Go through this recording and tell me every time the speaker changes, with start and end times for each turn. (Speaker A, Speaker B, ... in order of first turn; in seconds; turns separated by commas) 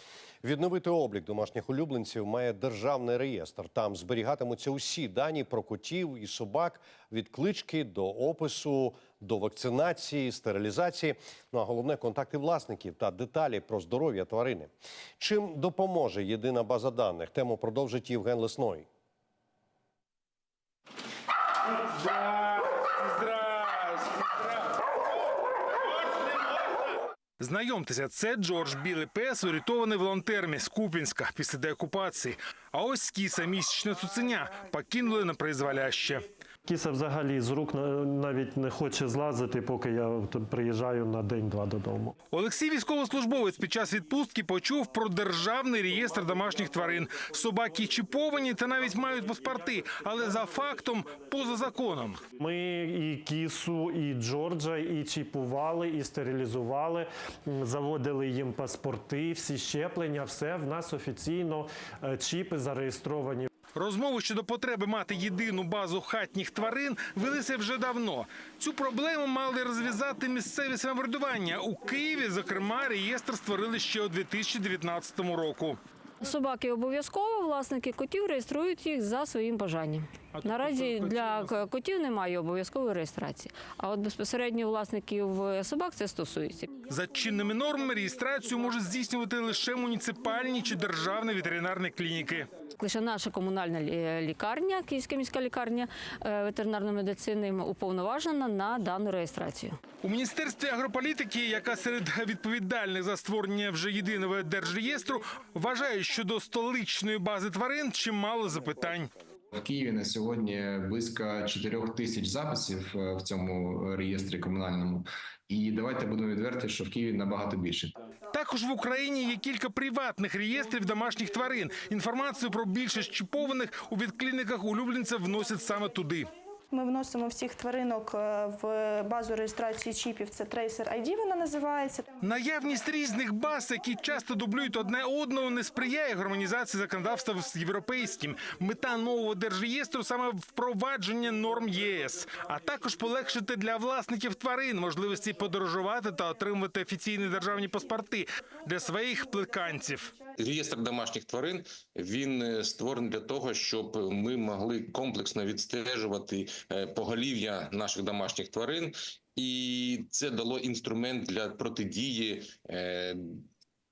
Speaker A: 0.4-14.7, Speaker A: 15.2-18.9, Speaker B: 21.8-24.6, Speaker B: 27.4-36.3, Speaker C: 36.7-42.1, Speaker B: 42.3-52.2, Speaker C: 52.4-63.5, Speaker B: 63.8-75.8, Speaker D: 76.2-86.8, Speaker B: 80.4-81.6, Speaker B: 86.9-92.5, Speaker D: 92.8-99.8, Speaker B: 100.0-109.1, Speaker E: 109.5-117.9, Speaker B: 118.3-126.3, Speaker F: 126.7-132.1, Speaker B: 132.2-150.2, Speaker G: 150.4-163.5